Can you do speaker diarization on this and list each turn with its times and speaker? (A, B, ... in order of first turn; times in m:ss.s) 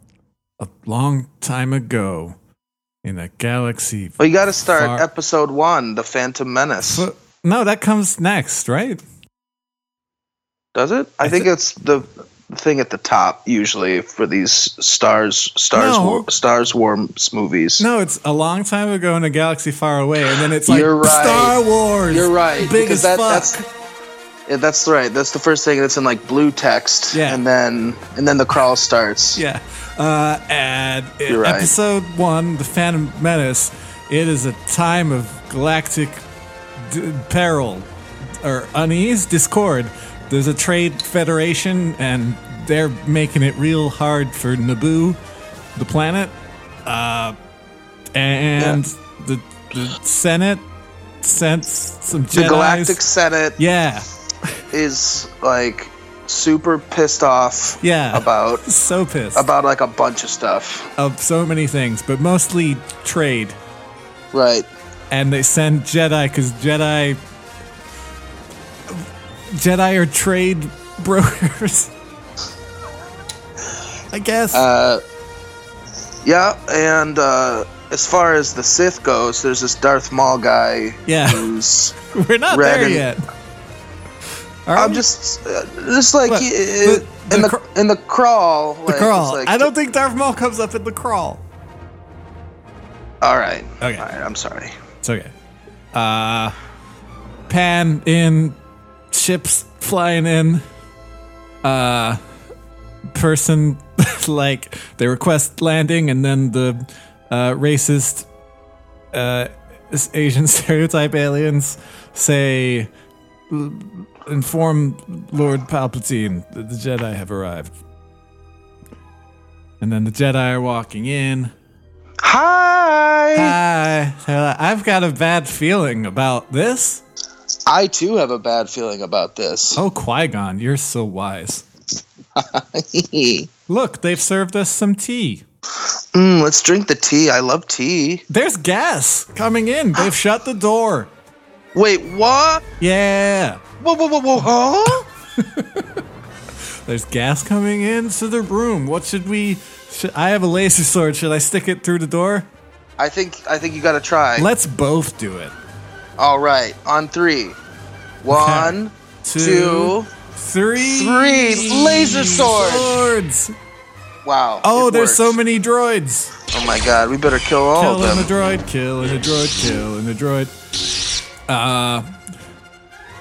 0:00.6-0:02.4 A
0:03.0-0:05.0 A
0:04.2-0:07.0 B
0:06.8-0:09.0 A
0:10.7-0:17.8 B
0:11.2-0:11.5 A
0:15.7-0:16.3 A
0:17.8-0:23.6 A
0:20.6-0:21.6 B
0:22.1-0:23.6 B
0:24.5-0:29.4 B
0:27.1-0:27.4 A
0:29.4-0:36.2 A
0:31.3-0:31.7 B
0:36.8-0:37.9 A
0:38.4-0:45.2 A
0:45.8-0:46.3 A
0:46.8-0:47.4 A
0:48.1-0:50.6 A
0:51.2-0:53.0 A
0:52.3-0:53.6 B
0:53.6-0:54.6 A
0:54.7-0:58.6 B
0:57.8-0:59.5 A
0:59.3-1:00.9 B
1:01.0-1:03.6 A
1:04.3-1:04.7 B
1:05.1-1:07.2 A
1:08.9-1:11.9 A
1:14.1-1:14.7 A
1:14.5-1:15.0 B
1:16.2-1:22.0 B
1:21.1-1:21.5 A
1:22.0-1:23.2 A
1:22.5-1:23.1 B
1:24.7-1:25.0 A
1:24.8-1:29.7 B
1:26.3-1:27.6 A
1:28.9-1:31.4 A
1:33.2-1:34.7 B
1:33.8-1:34.0 A
1:35.0-1:35.3 A
1:35.9-1:36.5 A
1:37.5-1:38.6 A
1:39.1-1:40.6 A
1:41.6-1:42.2 A
1:43.1-1:48.3 A
1:49.1-1:52.9 A
1:53.5-1:57.7 A
1:59.8-2:01.5 A
2:02.2-2:03.6 B
2:03.3-2:07.0 A
2:07.6-2:09.8 B
2:09.8-2:11.6 A
2:12.4-2:13.5 B
2:13.7-2:15.4 A
2:16.1-2:18.2 B
2:18.3-2:21.1 A
2:21.8-2:22.6 B
2:22.8-2:23.6 A
2:23.8-2:25.1 B
2:25.4-2:26.0 A
2:26.8-2:32.5 A
2:33.0-2:34.5 B
2:34.4-2:35.6 A
2:36.2-2:37.6 B
2:38.2-2:40.1 B
2:38.3-2:43.5 A
2:40.8-2:42.9 B
2:44.2-2:45.4 B
2:44.6-2:46.3 A
2:46.5-2:48.3 B
2:47.8-2:50.5 A
2:51.5-2:52.0 A